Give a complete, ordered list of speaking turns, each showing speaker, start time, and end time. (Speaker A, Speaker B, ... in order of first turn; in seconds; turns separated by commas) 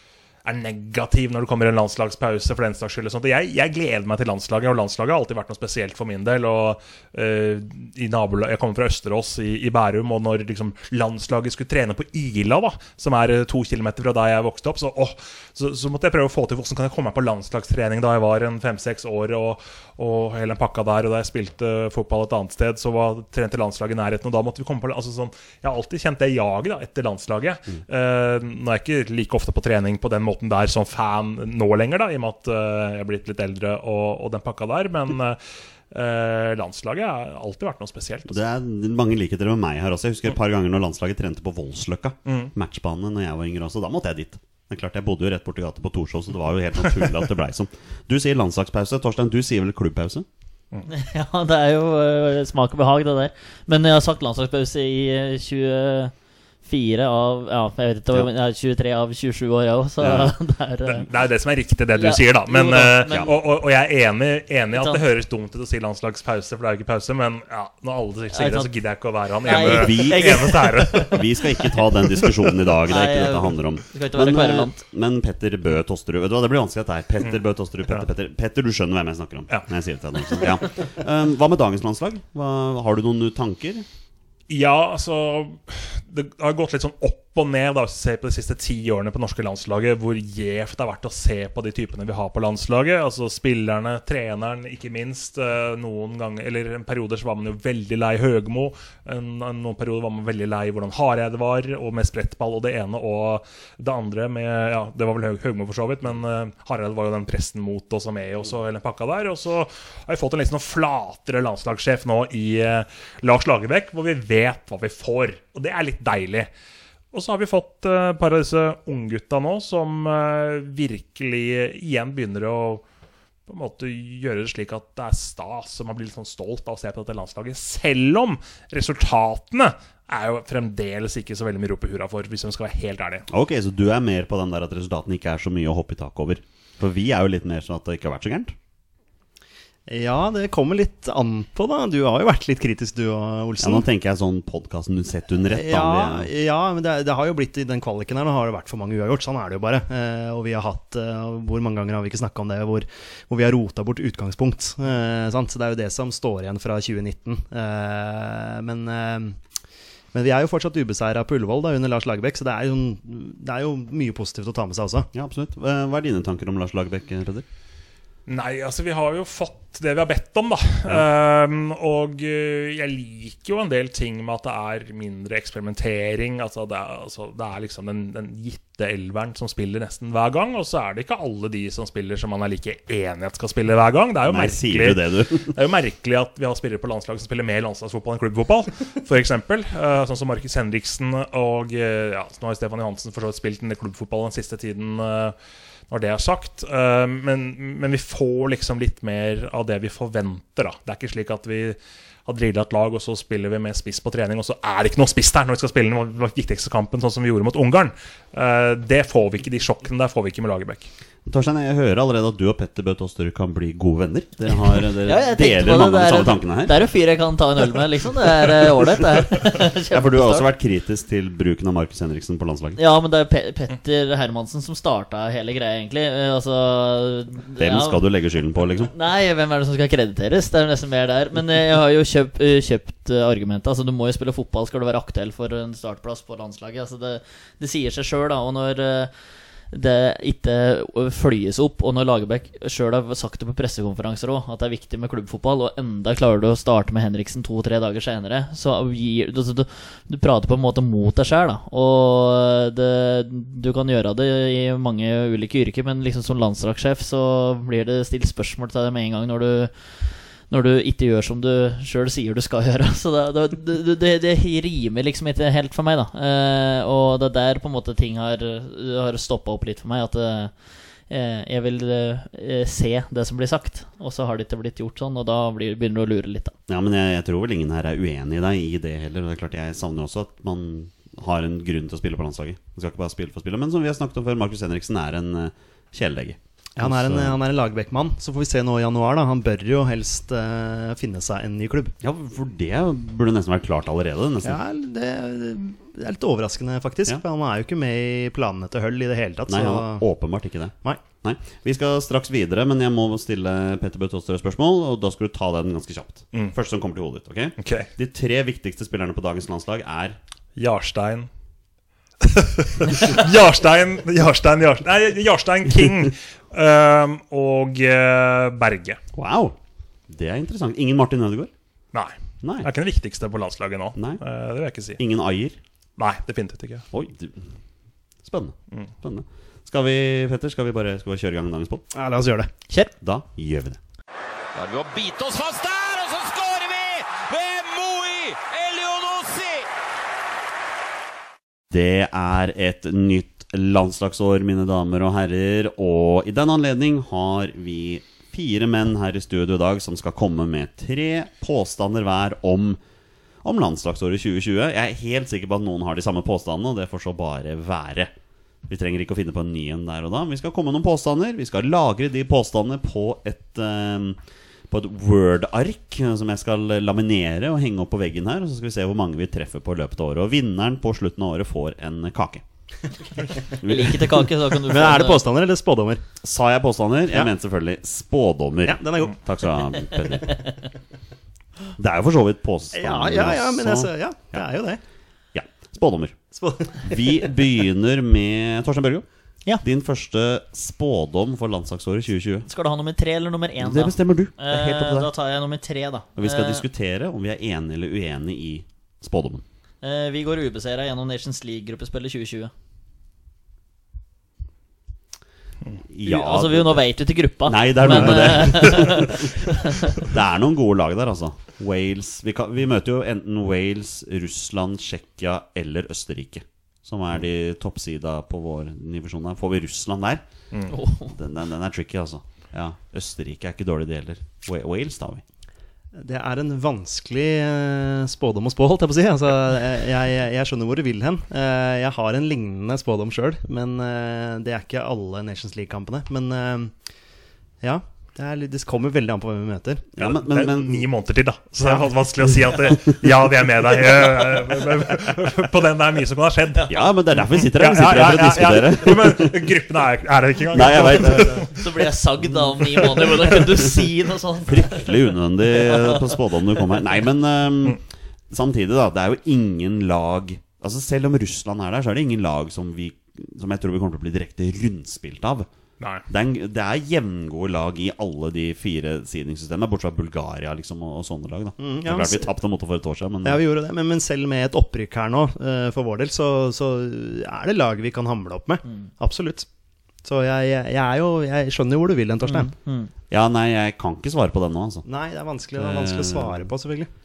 Speaker A: 0.4-35.4, Speaker A: 35.9-38.4, Speaker B: 38.3-50.2, Speaker A: 42.2-42.5, Speaker C: 50.9-61.1, Speaker B: 60.0-60.3, Speaker A: 60.9-71.2, Speaker C: 61.9-63.3, Speaker C: 64.7-65.0, Speaker C: 68.3-68.7, Speaker C: 69.4-74.8, Speaker B: 69.5-83.8, Speaker A: 77.2-78.1, Speaker A: 84.5-116.5, Speaker A: 117.1-122.8, Speaker A: 123.5-133.2, Speaker B: 133.3-138.5, Speaker D: 139.9-143.8, Speaker B: 143.6-146.3, Speaker D: 145.5-159.4, Speaker D: 160.1-165.1, Speaker B: 165.1-167.4, Speaker A: 168.3-195.3, Speaker B: 184.2-185.6, Speaker A: 195.9-210.9, Speaker B: 211.2-216.8, Speaker C: 214.8-220.5, Speaker B: 219.9-222.8, Speaker C: 222.8-228.0, Speaker B: 227.6-228.9, Speaker C: 228.9-276.5, Speaker B: 276.7-287.4, Speaker D: 286.8-291.9, Speaker B: 292.0-294.6, Speaker D: 294.4-300.1, Speaker B: 299.5-310.2, Speaker A: 307.6-307.9, Speaker A: 310.6-311.3, Speaker A: 312.2-319.0, Speaker B: 319.1-319.6, Speaker B: 320.1-321.5, Speaker A: 321.9-325.0, Speaker B: 322.4-322.7, Speaker B: 323.9-324.2, Speaker B: 325.0-325.6, Speaker A: 326.0-326.9, Speaker B: 326.9-327.6, Speaker B: 328.2-331.8, Speaker D: 331.9-332.5, Speaker B: 333.0-333.8, Speaker E: 334.5-339.7, Speaker B: 341.7-352.8, Speaker B: 353.4-358.1, Speaker B: 358.7-372.4, Speaker B: 373.5-374.3, Speaker C: 373.6-375.2, Speaker D: 374.6-376.0, Speaker B: 376.2-380.5, Speaker D: 378.6-379.2, Speaker B: 381.8-384.4, Speaker D: 382.7-384.8, Speaker B: 385.3-386.2, Speaker D: 386.3-387.3, Speaker B: 386.8-392.5, Speaker C: 392.4-396.6, Speaker B: 393.6-395.1, Speaker B: 396.1-399.4, Speaker C: 399.8-402.5, Speaker B: 405.9-406.8, Speaker C: 406.0-409.9, Speaker B: 407.4-420.2, Speaker C: 420.7-421.1, Speaker B: 421.1-425.2, Speaker D: 425.9-436.8, Speaker D: 437.6-439.9, Speaker B: 439.9-440.9, Speaker A: 440.0-451.6, Speaker B: 446.7-449.6, Speaker B: 450.5-451.5, Speaker C: 450.9-457.0, Speaker A: 452.8-453.2, Speaker B: 454.4-465.5, Speaker A: 465.8-466.1, Speaker B: 466.1-473.4, Speaker D: 471.6-472.3, Speaker D: 473.2-479.5, Speaker C: 478.6-478.9, Speaker D: 480.0-482.5, Speaker C: 482.2-482.9, Speaker B: 483.1-484.9, Speaker D: 484.8-486.9, Speaker B: 485.6-486.5